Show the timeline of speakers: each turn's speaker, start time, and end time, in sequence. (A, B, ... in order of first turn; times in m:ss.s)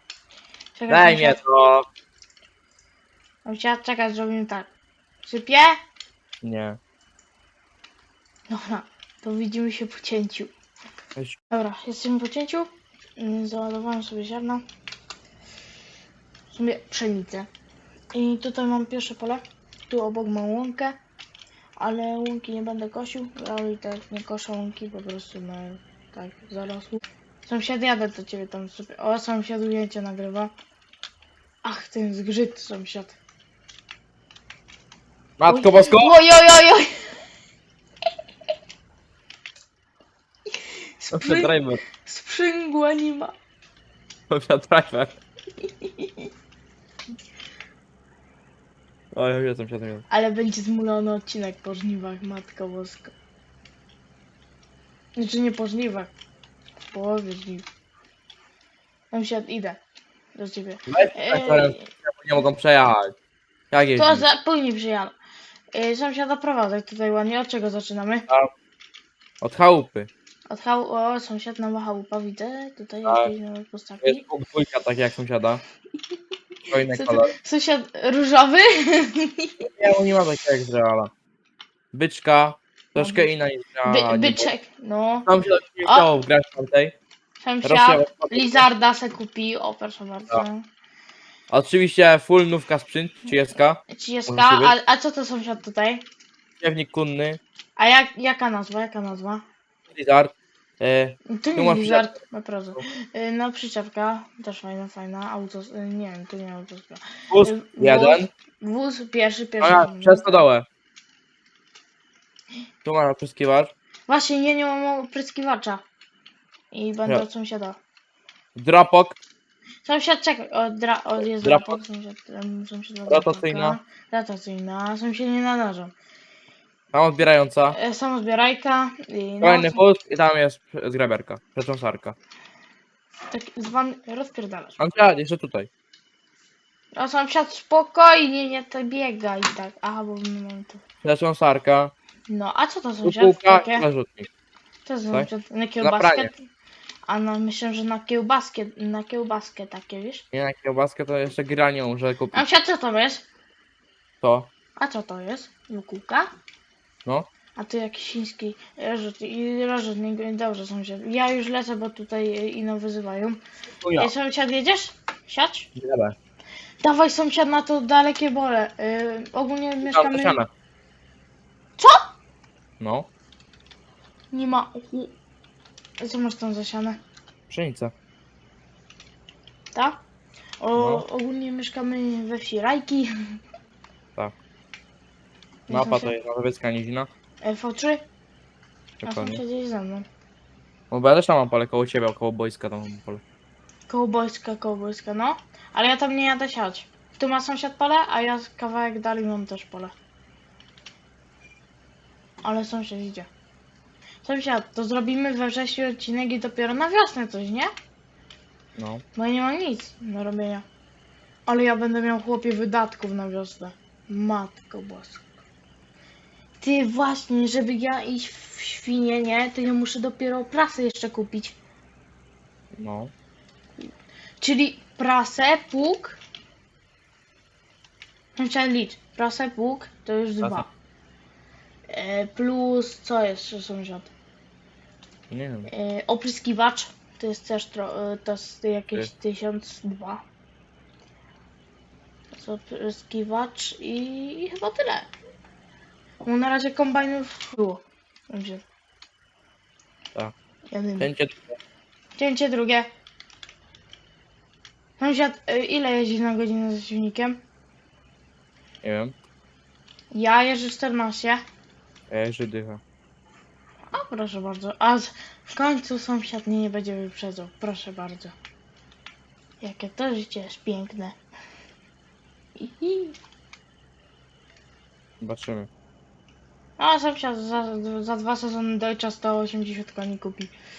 0:00.7-0:01.4 A
0:00.9-0:01.8 B
0:03.4-0:04.7 A
0:05.2-0:05.8 A
0:06.4-0:06.8 B
0:08.5-0:10.5 A
0:11.5-0:14.6 A
0:16.5-0:17.5 A
0:18.1-0:21.0 A
0:21.8-0:30.5 A
0:31.6-0:33.2 A
0:35.4-0:36.2 B
0:35.5-0:37.0 A
0:40.6-0:43.3 A
0:41.1-0:41.8 B
0:44.3-0:45.2 B
0:45.6-0:46.3 A
0:49.1-0:50.0 B
0:50.1-0:53.1 A
0:55.2-0:56.1 A
0:56.9-0:57.6 A
0:59.1-0:59.8 A
1:00.4-1:01.8 A
1:00.9-1:03.1 B
1:03.7-1:04.2 B
1:04.0-1:05.1 A
1:05.7-1:08.3 A
1:09.4-1:10.1 B
1:10.5-1:14.2 A
1:13.0-1:13.3 B
1:14.0-1:15.6 B
1:16.7-1:17.3 B
1:16.8-1:19.7 A
1:19.8-1:21.1 B
1:21.9-1:24.5 B
1:23.0-1:23.3 A
1:23.8-1:25.3 A
1:25.3-1:26.9 B
1:25.8-1:26.1 A
1:27.4-1:30.6 A
1:27.6-1:28.6 B
1:31.5-1:34.8 B
1:33.9-1:36.0 A
1:36.6-1:37.4 B
1:37.8-1:39.4 A
1:39.9-1:42.1 B
1:41.3-1:50.4 A
1:47.3-1:48.3 B
1:49.6-1:50.6 B
1:52.8-1:53.7 B
1:54.1-1:55.8 A
1:56.7-1:57.8 A
1:58.6-1:59.2 B
1:59.8-2:05.9 A
2:01.2-2:01.8 B
2:03.1-2:03.8 B
2:06.9-2:07.8 B
2:07.7-2:09.8 A
2:09.4-2:12.2 B
2:13.3-2:14.8 A
2:14.8-2:15.7 B
2:17.0-2:20.8 A
2:21.0-2:21.9 B
2:22.3-2:23.9 A
2:23.0-2:24.3 B
2:24.8-2:26.4 A
2:25.8-2:26.3 B
2:27.0-2:30.2 A
2:30.3-2:32.4 B
2:32.3-2:33.2 A
2:34.2-2:34.5 B
2:34.8-2:36.3 A
2:37.6-2:43.4 A
2:43.8-2:44.1 B
2:43.9-2:45.7 A
2:45.8-2:46.1 B
2:46.8-2:50.4 A
2:49.8-2:50.5 B
2:51.8-2:52.0 A
2:52.8-2:53.1 B
2:54.3-2:55.1 A
2:56.0-2:57.0 A
2:57.5-2:57.9 B
2:59.7-3:00.0 A
3:00.6-3:03.1 A
3:00.8-3:01.0 B
3:05.7-3:06.1 A
3:05.7-3:07.1 B
3:07.4-3:08.0 A
3:09.0-3:09.4 B
3:09.0-3:10.0 A
3:10.9-3:13.2 B
3:13.9-3:19.9 A
3:22.4-3:23.3 A
3:24.2-3:27.7 A
3:28.8-3:29.0 B
3:29.1-3:30.6 A
3:31.5-3:35.3 A
3:36.6-3:41.6 A
3:42.7-3:43.1 B
3:44.4-3:46.2 A
3:48.4-3:50.7 A
3:50.4-3:50.6 B
3:51.9-3:54.1 A
3:55.3-3:55.7 B
3:55.7-4:00.2 A
4:02.3-4:05.1 A
4:06.2-4:08.6 A
4:10.7-4:11.1 A
4:11.0-4:11.6 B
4:12.2-4:12.9 A
4:15.0-4:17.4 A
4:18.8-4:19.2 B
4:20.1-4:21.4 A
4:22.1-4:22.8 B
4:23.9-4:28.3 A
4:29.6-4:31.2 A
4:32.6-4:33.1 A
4:35.2-4:35.7 B
4:36.8-4:40.5 A